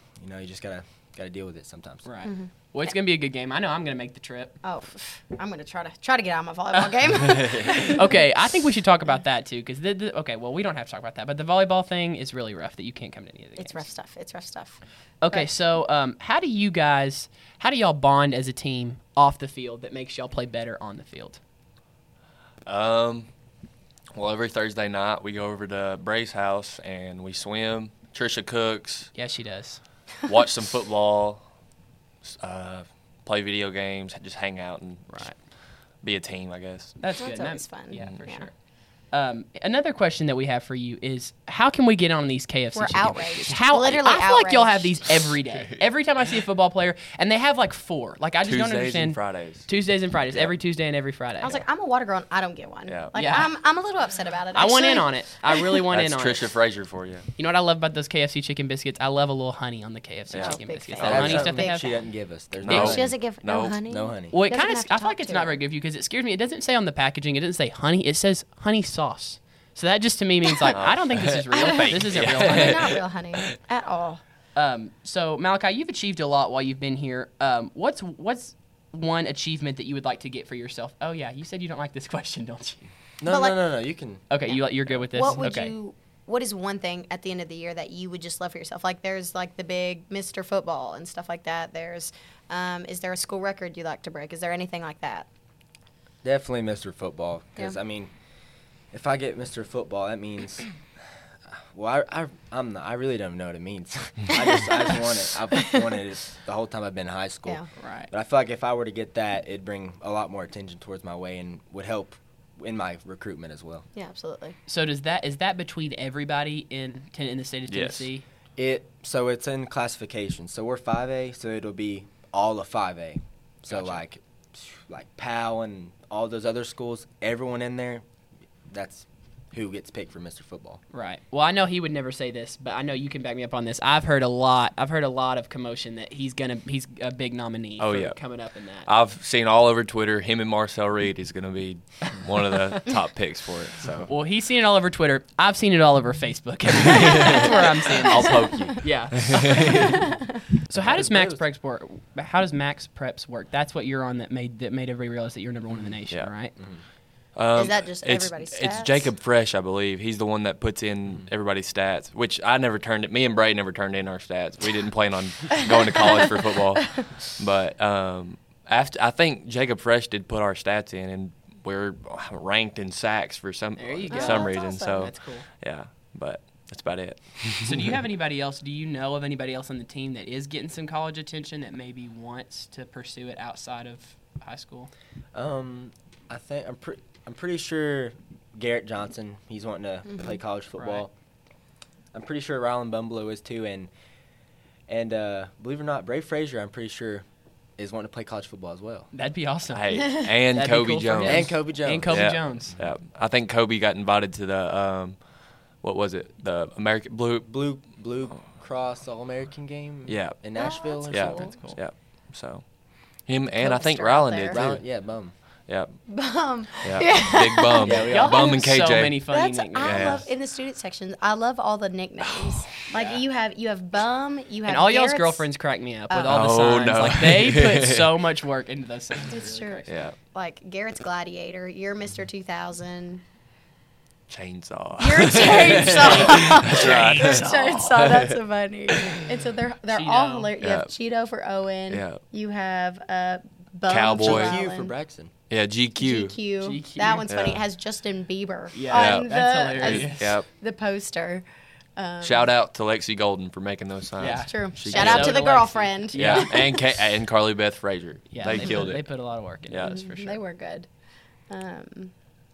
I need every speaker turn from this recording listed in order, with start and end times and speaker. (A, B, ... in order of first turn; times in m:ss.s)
0:00.2-0:02.1 A
0:02.1-0:04.6 B
0:02.2-0:02.5 C
0:04.6-0:08.1 C
0:07.9-0:13.9 B
0:13.6-0:15.5 C
0:15.2-0:21.4 B
0:22.6-0:23.3 D
0:24.1-0:29.1 D
0:29.1-0:29.8 B
0:30.2-0:31.4 D
0:32.2-0:35.3 D
0:35.1-0:35.4 B
0:36.0-0:37.0 D
0:37.0-0:38.6 B
0:37.2-0:38.5 C
0:39.1-0:51.6 B
0:42.7-0:45.0 C
0:45.5-0:45.8 D
0:48.4-0:49.7 D
0:51.4-0:55.8 C
0:52.9-0:53.1 D
0:53.2-0:53.5 B
0:54.6-0:56.5 B
0:55.9-0:57.3 D
0:57.4-1:02.0 B
1:00.3-1:01.5 D
1:00.3-1:01.9 C
1:01.0-1:03.2 A
1:02.6-1:03.8 D
1:02.7-1:03.0 B
1:02.8-1:05.6 C
1:03.9-1:04.4 A
1:04.3-1:13.0 B
1:10.7-1:13.4 D
1:12.4-1:14.2 C
1:14.6-1:22.9 B
1:23.2-1:24.2 A
1:23.3-1:23.7 C
1:24.3-1:25.7 B
1:25.1-1:35.3 C
1:36.2-1:38.1 A
1:38.9-1:40.7 A
1:41.7-1:53.9 A
1:44.3-1:44.9 C
1:45.6-1:45.8 C
1:47.8-1:48.1 B
1:54.0-1:54.6 C
1:54.7-1:58.2 B
1:57.7-1:58.1 D
1:58.6-2:08.0 A
2:03.7-2:04.0 B
2:08.7-2:10.8 A
2:10.9-2:18.9 B
2:17.8-2:18.2 D
2:18.9-2:24.1 D
2:24.1-2:29.6 B
2:27.1-2:30.0 D
2:27.3-2:27.6 C
2:28.2-2:28.8 C
2:29.6-2:30.0 C
2:30.7-2:36.5 B
2:30.8-2:31.4 A
2:36.6-2:36.8 A
2:37.4-2:57.9 D
2:37.5-2:39.1 C
2:53.8-2:55.5 B
2:54.1-2:55.1 C
2:57.6-3:04.9 B
3:05.3-3:11.1 A
3:10.8-3:11.1 B
3:12.1-3:13.9 A
3:14.9-3:17.2 A
3:17.8-3:19.1 A
3:19.1-3:22.8 B
3:19.7-3:25.2 D
3:20.0-3:20.3 C
3:21.2-3:22.4 A
3:25.8-3:27.5 D
3:27.5-3:31.4 A
3:30.1-3:32.6 D
3:30.6-3:31.6 C
3:31.2-3:31.8 B
3:33.2-3:35.0 D
3:33.6-3:34.6 C
3:34.5-3:35.3 A
3:35.7-3:35.9 D
3:36.1-3:38.6 C
3:36.8-3:40.2 D
3:37.8-3:38.4 A
3:38.0-3:40.3 B
3:39.3-3:45.5 C
3:42.3-3:42.6 D
3:42.9-3:43.2 B
3:44.7-3:50.0 B
3:46.1-3:46.4 C
3:46.3-3:48.2 D
3:49.3-3:53.2 C
3:49.9-3:50.2 D
3:54.3-3:58.4 D
3:55.0-4:04.9 C
3:55.9-3:57.8 B
3:58.9-3:59.4 D
3:59.9-4:00.5 B
4:00.6-4:00.9 D
4:01.9-4:02.2 D
4:03.9-4:04.6 D
4:04.2-4:05.3 A
4:05.5-4:06.4 D
4:06.0-4:11.5 C
4:06.6-4:07.3 B
4:07.3-4:07.6 D
4:08.7-4:10.4 B
4:08.9-4:09.3 D
4:09.8-4:10.5 D
4:12.0-4:12.5 C
4:12.2-4:15.6 D
4:14.2-4:16.6 B
4:14.3-4:16.7 C
4:16.2-4:19.1 D
4:18.3-4:20.4 B
4:18.5-4:18.9 C
4:19.7-4:20.0 D
4:19.8-4:20.9 C
4:21.5-4:22.1 C